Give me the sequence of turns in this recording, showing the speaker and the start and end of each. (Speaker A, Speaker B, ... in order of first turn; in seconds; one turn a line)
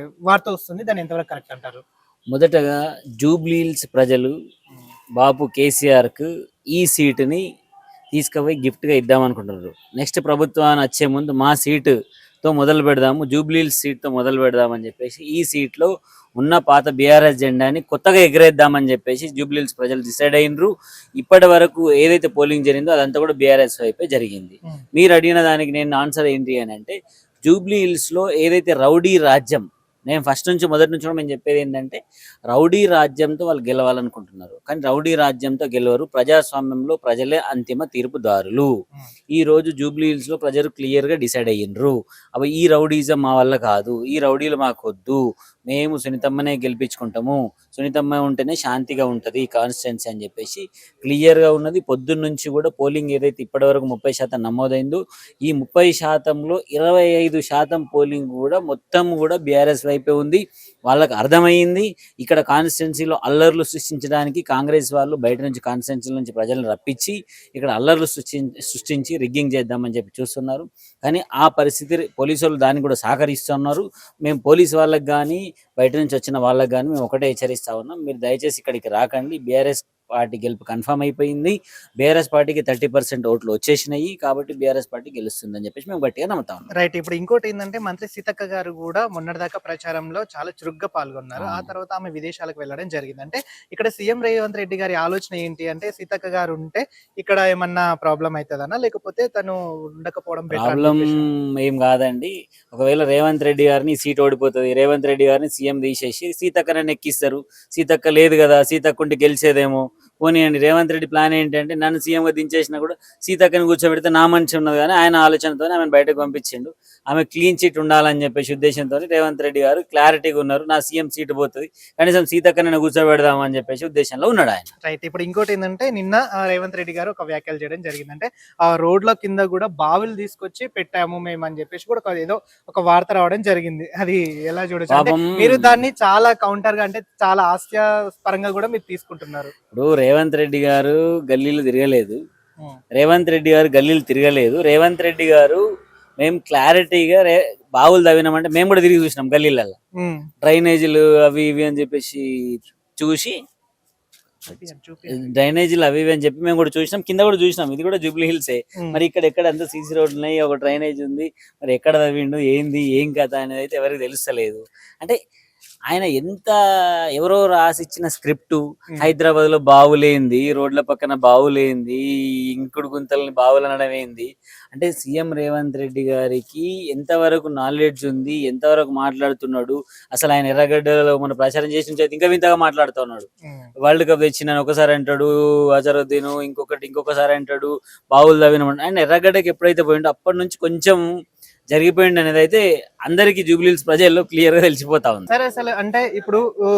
Speaker A: 0.2-1.8
Speaker B: 2.3-4.3
Speaker B: 5.2-7.4
Speaker B: 8.1-32.0
Speaker B: 32.5-38.7
Speaker B: 39.3-86.7
Speaker A: 86.8-101.3
Speaker B: 91.4-91.7
Speaker B: 100.5-124.7
Speaker A: 124.8-139.5
Speaker B: 134.9-135.8
Speaker B: 139.7-142.2
Speaker B: 142.9-145.6
Speaker B: 146.2-149.8
Speaker A: 150.0-150.3
Speaker B: 150.4-153.3
Speaker A: 154.4-155.3
Speaker B: 155.1-165.1
Speaker B: 165.9-166.5
Speaker B: 167.2-183.3
Speaker A: 183.4-183.7
Speaker B: 183.8-191.0
Speaker B: 191.7-195.3
Speaker A: 195.3-196.4